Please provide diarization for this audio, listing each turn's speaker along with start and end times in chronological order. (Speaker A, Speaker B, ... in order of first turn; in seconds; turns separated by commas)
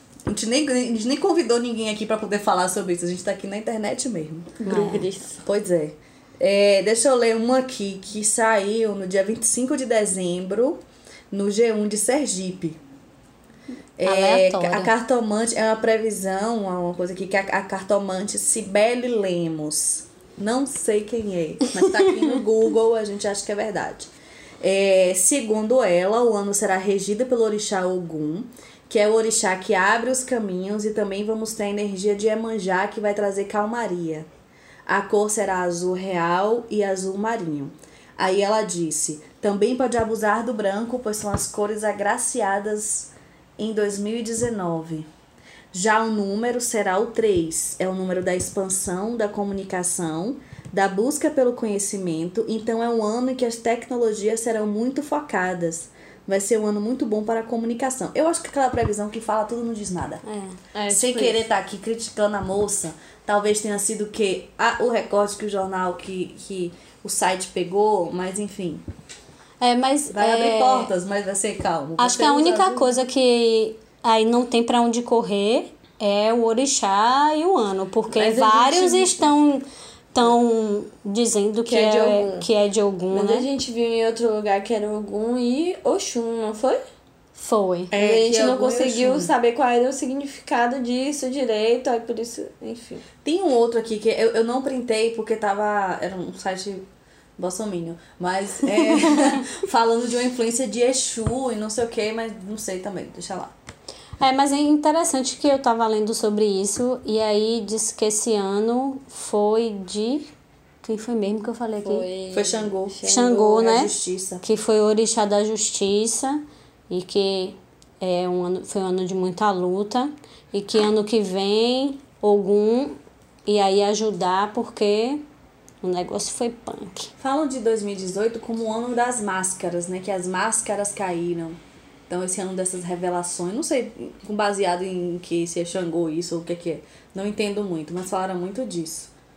Speaker A: 0.3-4.6, Speaker B: 4.6-5.4, Speaker C: 4.7-5.1, Speaker A: 5.4-10.8, Speaker A: 11.3-12.8, Speaker A: 14.0-34.3, Speaker C: 14.0-14.9, Speaker A: 34.9-45.1, Speaker A: 45.7-60.2, Speaker C: 60.2-60.6, Speaker B: 60.7-61.5, Speaker A: 60.9-68.8, Speaker C: 69.6-70.9, Speaker A: 70.1-72.9, Speaker C: 72.0-83.5, Speaker B: 78.1-79.3, Speaker B: 81.7-82.5, Speaker B: 83.1-86.8, Speaker C: 87.3-87.9, Speaker A: 87.9-89.3, Speaker B: 87.9-93.0, Speaker A: 93.2-96.8, Speaker A: 97.4-103.5, Speaker C: 98.9-99.3, Speaker C: 104.2-110.3, Speaker C: 110.8-112.0, Speaker B: 111.8-113.7, Speaker A: 112.3-114.4, Speaker C: 113.0-113.9, Speaker C: 114.4-125.2, Speaker C: 125.8-127.1, Speaker A: 127.2-139.1